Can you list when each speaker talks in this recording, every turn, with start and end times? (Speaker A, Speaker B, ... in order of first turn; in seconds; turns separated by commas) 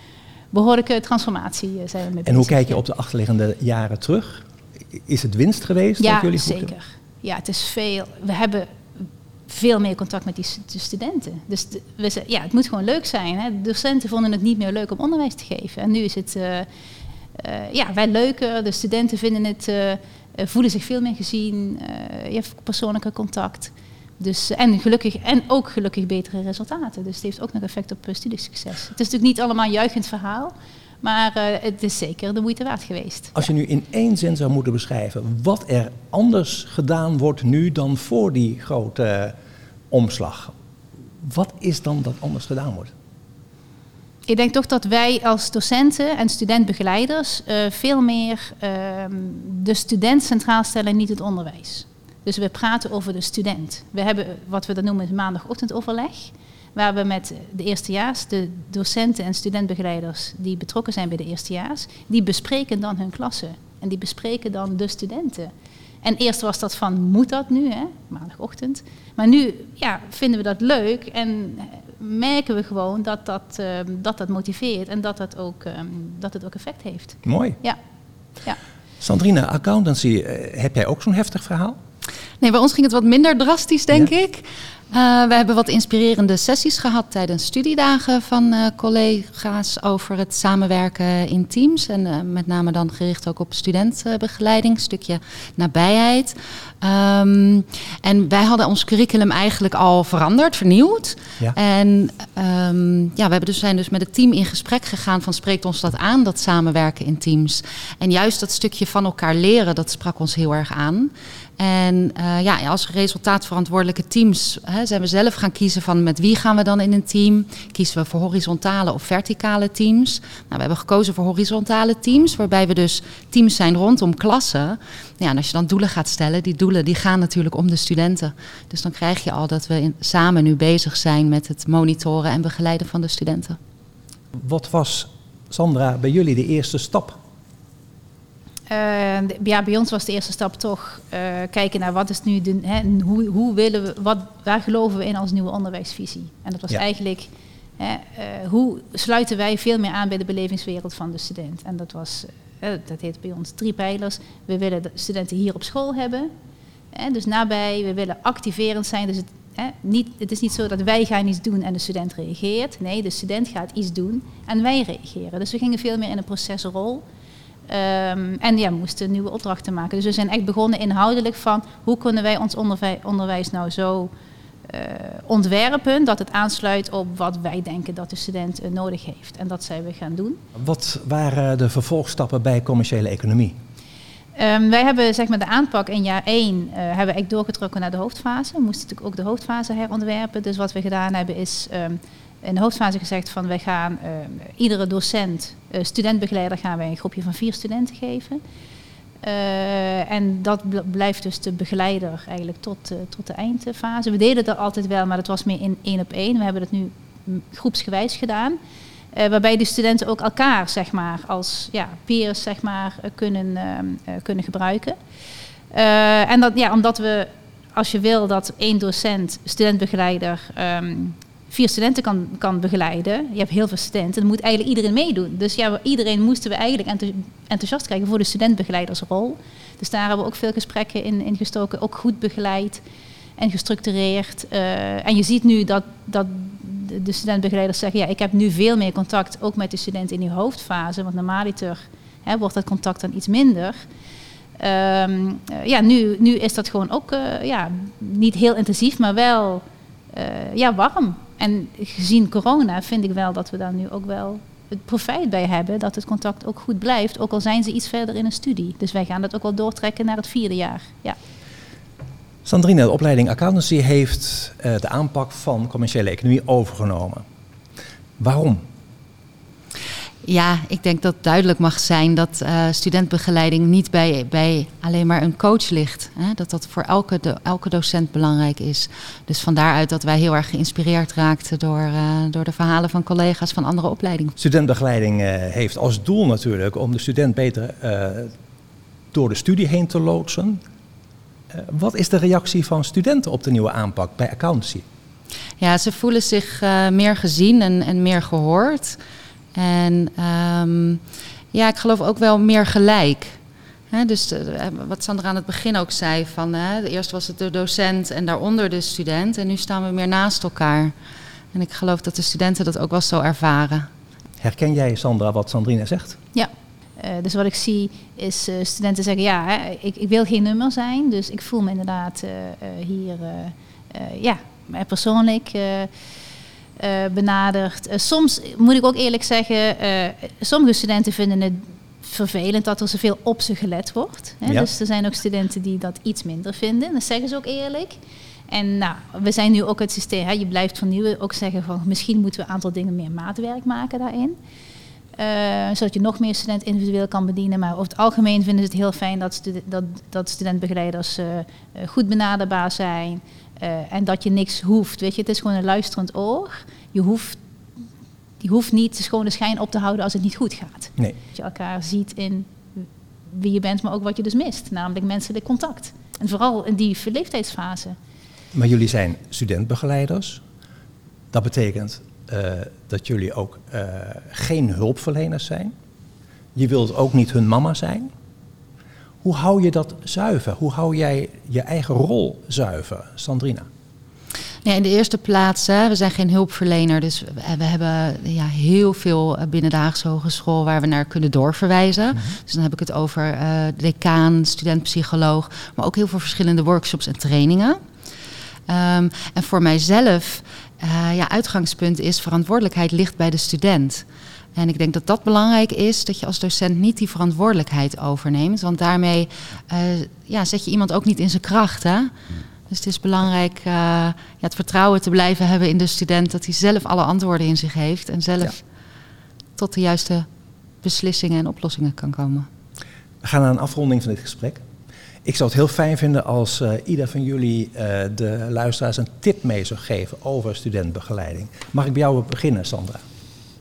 Speaker A: 0.5-2.8, Speaker B: 2.2-6.7, Speaker A: 6.0-16.7, Speaker A: 17.3-33.4, Speaker B: 33.3-39.3, Speaker B: 39.9-40.5, Speaker B: 41.2-42.9, Speaker A: 44.3-65.5, Speaker A: 66.0-77.8, Speaker B: 77.2-77.6, Speaker B: 79.0-81.8, Speaker C: 82.4-133.6, Speaker B: 134.4-137.2, Speaker A: 138.7-156.3, Speaker A: 156.9-167.0, Speaker A: 167.7-174.1, Speaker A: 174.7-180.4, Speaker B: 180.6-183.6, Speaker A: 184.3-198.4, Speaker A: 199.2-208.6, Speaker A: 209.1-215.0, Speaker A: 215.7-232.8, Speaker A: 233.4-243.8, Speaker A: 244.6-261.2, Speaker B: 262.4-267.2, Speaker B: 268.2-268.6, Speaker C: 270.2-284.3, Speaker B: 284.4-288.3, Speaker B: 289.1-290.6, Speaker B: 291.5-294.8, Speaker C: 295.6-299.0, Speaker C: 299.5-301.0, Speaker C: 301.5-303.4, Speaker C: 303.9-310.9, Speaker C: 311.5-313.9, Speaker B: 314.4-316.2, Speaker A: 316.3-325.9, Speaker A: 326.8-338.0, Speaker A: 338.5-344.4, Speaker A: 345.2-357.4, Speaker A: 358.4-367.9, Speaker B: 368.5-370.4, Speaker B: 371.3-375.7, Speaker B: 376.5-378.1, Speaker B: 379.2-383.6, Speaker C: 384.6-397.8, Speaker C: 398.7-404.0, Speaker C: 404.6-412.1, Speaker C: 412.7-418.6, Speaker C: 419.6-420.3, Speaker C: 420.8-422.5, Speaker B: 423.2-424.6, Speaker B: 425.2-433.0